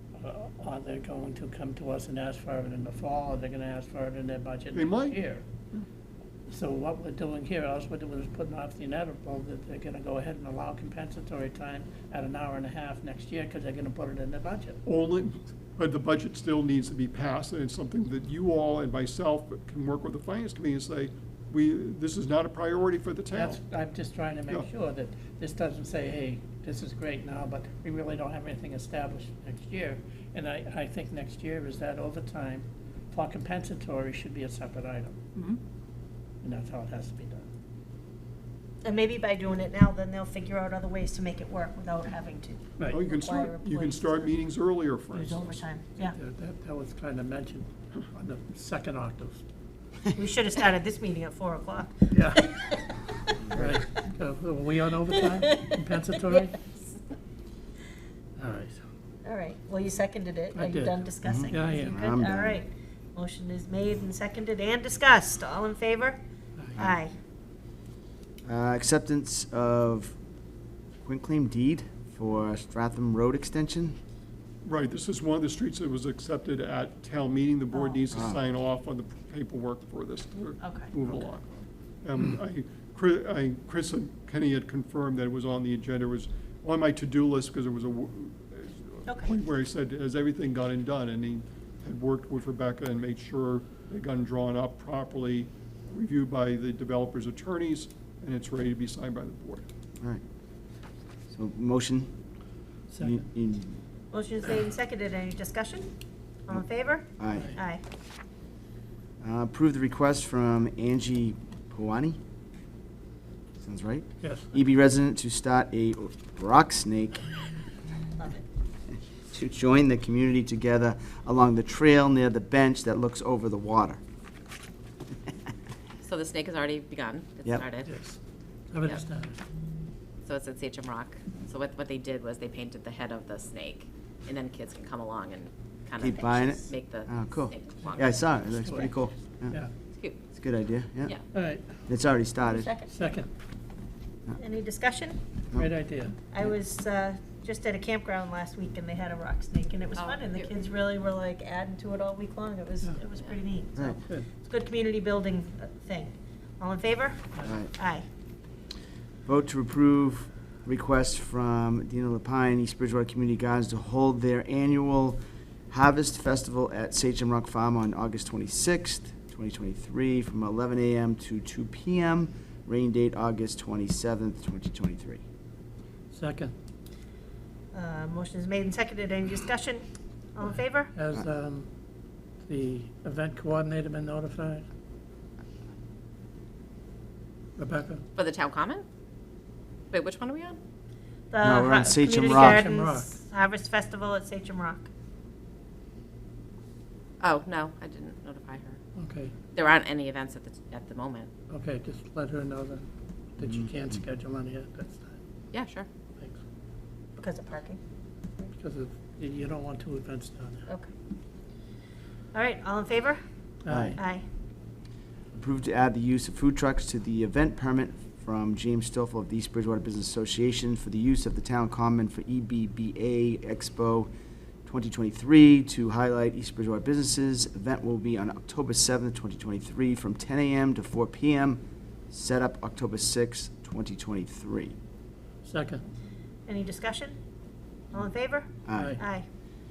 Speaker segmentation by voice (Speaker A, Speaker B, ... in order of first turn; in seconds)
Speaker A: 0.1-5.4, 6.5-14.8, 23.3-35.2, 36.4-37.5, 46.0-49.4, 52.1-52.7, 53.5-56.6, 58.4-58.8, 60.5-62.0, 102.9-103.2, 107.3-107.6, 114.2-114.5, 127.8-128.2, 128.7-129.4, 138.6-138.9, 141.3-141.7, 142.9-143.3, 145.5-146.1, 176.1-176.5, 180.9-181.7, 182.4-184.7, 187.6-188.0, 192.2-193.1, 198.9-199.3, 201.5-205.2, 208.4-210.7, 213.6-214.0, 235.4-235.8, 238.7-239.0
Speaker B: 4.7-5.2, 14.8-23.6, 35.3-35.6, 42.9-45.6, 74.6-99.7
Speaker C: 38.8-44.4, 45.1-46.1, 50.1-52.7, 59.2-66.2, 66.8-67.1, 77.7-78.2, 80.6-81.1, 89.1-89.3, 104.1-105.9, 106.5-107.8, 118.2-118.4, 142.5-142.9, 144.4-145.2, 146.3-158.0, 177.7-179.8, 180.3-180.9, 191.3-194.9, 207.2-207.8, 212.3-213.2, 214.0-214.2, 236.5-237.1, 237.9-239.2
Speaker D: 61.2-62.6, 68.5-70.1, 71.0-74.0, 101.3-102.1, 103.0-103.8, 107.2-107.6, 109.2-112.2, 113.6-117.3, 119.3-124.0, 136.0-139.6, 140.3-141.2, 141.9-142.7, 157.4-157.7, 159.2-175.2, 191.4-192.6, 213.7-214.0, 215.3-224.1, 224.6-231.6, 232.1-234.7, 238.7-239.0
Speaker E: 126.0-127.9, 130.2-138.1, 149.9-150.5, 188.1-188.8, 189.9-190.6, 197.2-198.8, 199.5-201.3, 205.5-205.9